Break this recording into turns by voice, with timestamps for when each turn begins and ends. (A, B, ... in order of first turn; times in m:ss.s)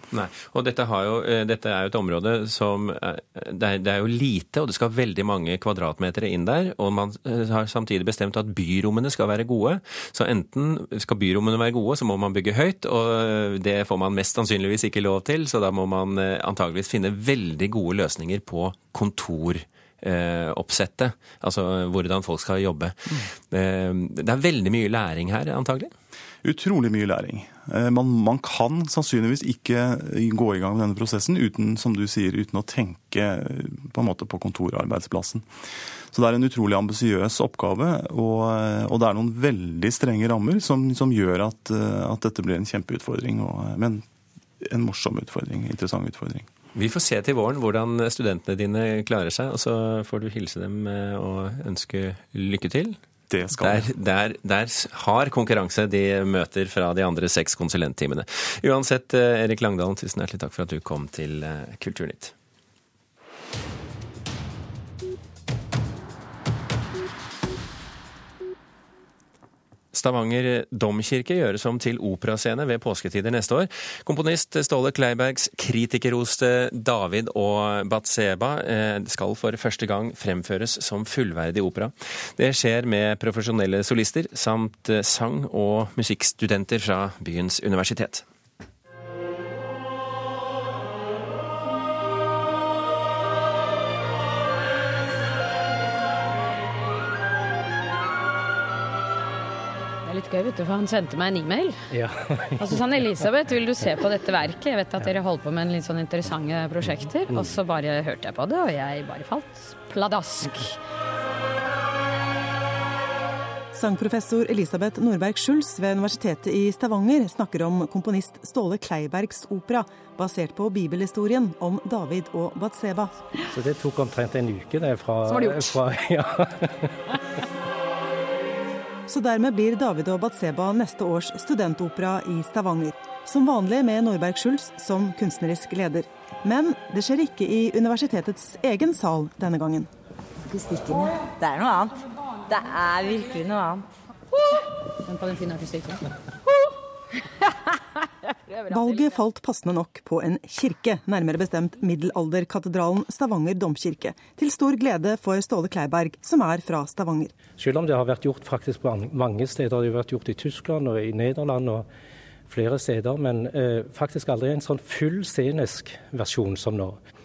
0:00.1-0:25.9 A
0:26.4-0:35.4 B
0:36.1-0:44.0 B
0:44.6-0:46.5 B
0:46.7-0:53.0 A
0:53.3-0:53.9 B
0:53.5-1:02.3 A
1:09.9-1:28.2 A
1:40.0-1:41.8 C
1:41.9-1:43.3 D
1:42.6-1:50.8 C
1:46.8-1:47.6 D
1:53.7-2:03.1 E
2:03.5-2:06.9 D
2:05.3-2:05.7 C
2:09.1-2:19.9 E
2:20.4-2:23.8 F
2:25.0-2:26.0 C
2:28.3-2:29.1 C
2:28.7-2:37.4 E
2:37.5-2:41.9 D
2:42.5-2:47.0 D